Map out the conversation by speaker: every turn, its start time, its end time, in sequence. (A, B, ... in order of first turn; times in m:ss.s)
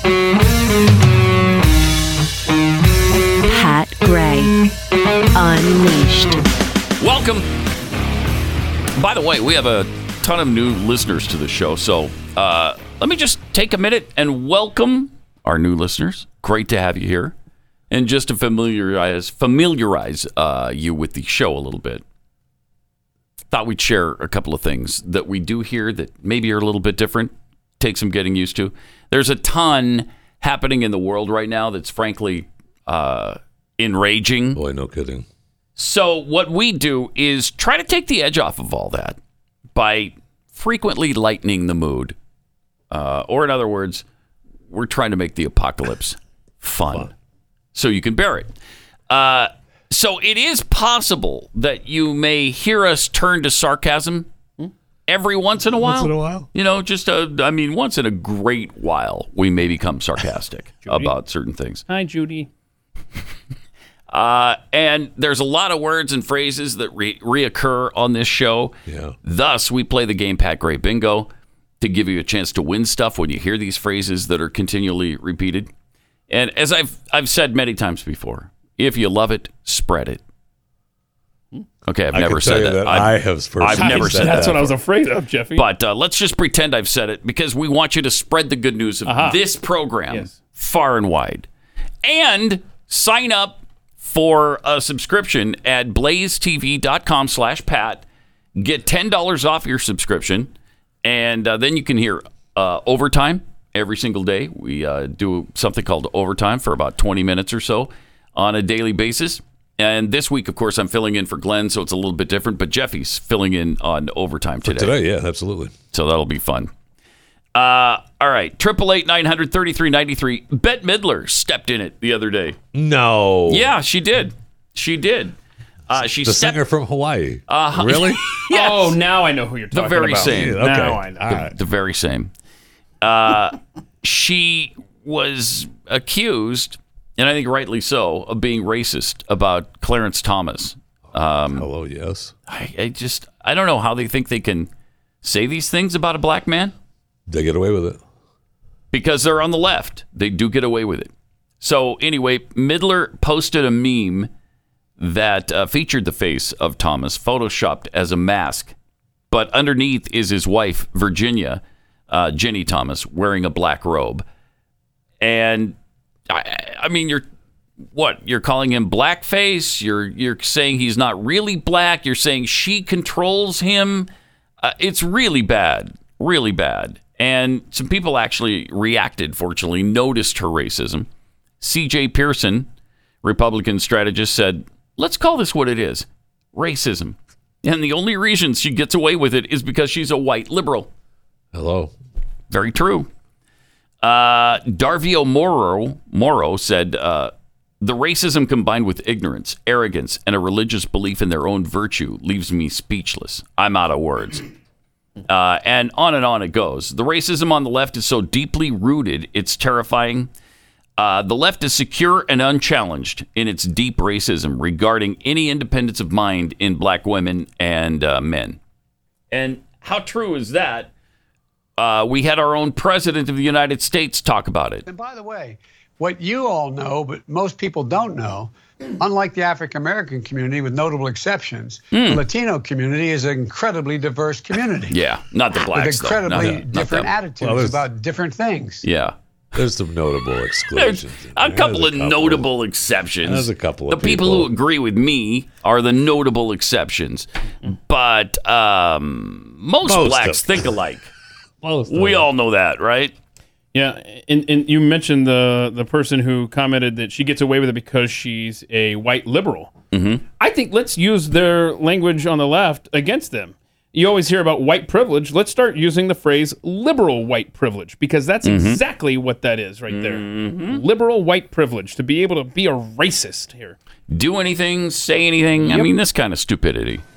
0:03.5-0:04.5 A
0:05.4-0:06.4 A
0:07.0-0:07.5 B
0:09.0-0:17.3 B
0:17.9-0:22.0 B
0:23.5-0:34.6 B
0:34.5-0:35.2 C
0:35.8-0:39.2 B
0:39.7-0:42.2 B
0:42.9-0:44.0 B
0:44.7-0:47.1 B
0:47.7-0:48.5 B
0:49.1-0:54.3 B
0:55.1-1:01.8 B
0:55.8-0:56.5 C
1:00.8-1:01.1 D
1:01.9-1:02.5 D
1:04.1-1:15.7 B
1:08.9-1:09.1 C
1:16.3-1:20.2 B
1:21.8-1:24.6 B
1:22.1-1:24.7 C
1:23.7-1:25.6 D
1:25.5-1:31.5 B
1:29.0-1:29.4 D
1:32.0-1:38.0 B
1:38.6-1:40.5 B
1:41.0-1:55.0 B
1:54.6-1:55.7 C
1:55.9-1:56.7 B
1:57.5-2:02.6 B
2:02.7-2:03.7 C
2:03.5-2:05.4 B
2:05.9-2:06.6 B
2:06.2-2:08.2 C
2:07.5-2:09.0 B
2:08.5-2:11.2 D
2:09.7-2:10.6 B
2:10.2-2:11.6 C
2:11.3-2:12.3 B
2:13.0-2:21.6 B
2:21.5-2:22.3 C
2:22.5-2:24.7 B
2:25.2-2:26.7 B
2:27.3-2:28.0 C
2:28.9-2:34.3 B
2:35.0-2:38.7 B
2:39.3-2:44.2 B
2:45.2-2:45.8 B
2:46.3-2:47.2 B
2:47.9-2:54.1 B
2:54.6-3:01.1 B
3:01.6-3:02.7 B
3:03.2-3:10.9 B
3:11.5-3:11.9 C
3:12.5-3:13.1 B
3:14.0-3:24.4 B
3:25.3-3:30.3 B
3:31.0-3:38.6 B
3:39.3-3:40.9 B
3:41.8-3:44.8 B
3:44.8-3:54.9 E
3:51.9-3:52.2 B
3:54.9-3:57.1 B
3:55.7-3:58.8 E
3:56.3-3:56.6 C
3:57.4-3:57.8 C
3:58.8-3:59.1 B
3:59.5-4:02.5 C
4:00.7-4:11.1 B
4:03.2-4:04.5 C
4:09.8-4:10.6 C
4:11.6-4:12.3 C
4:11.9-4:13.1 B
4:13.7-4:19.7 D
4:19.9-4:20.2 B
4:20.4-4:33.8 D
4:28.4-4:28.8 B
4:29.9-4:30.8 B
4:34.1-4:37.0 B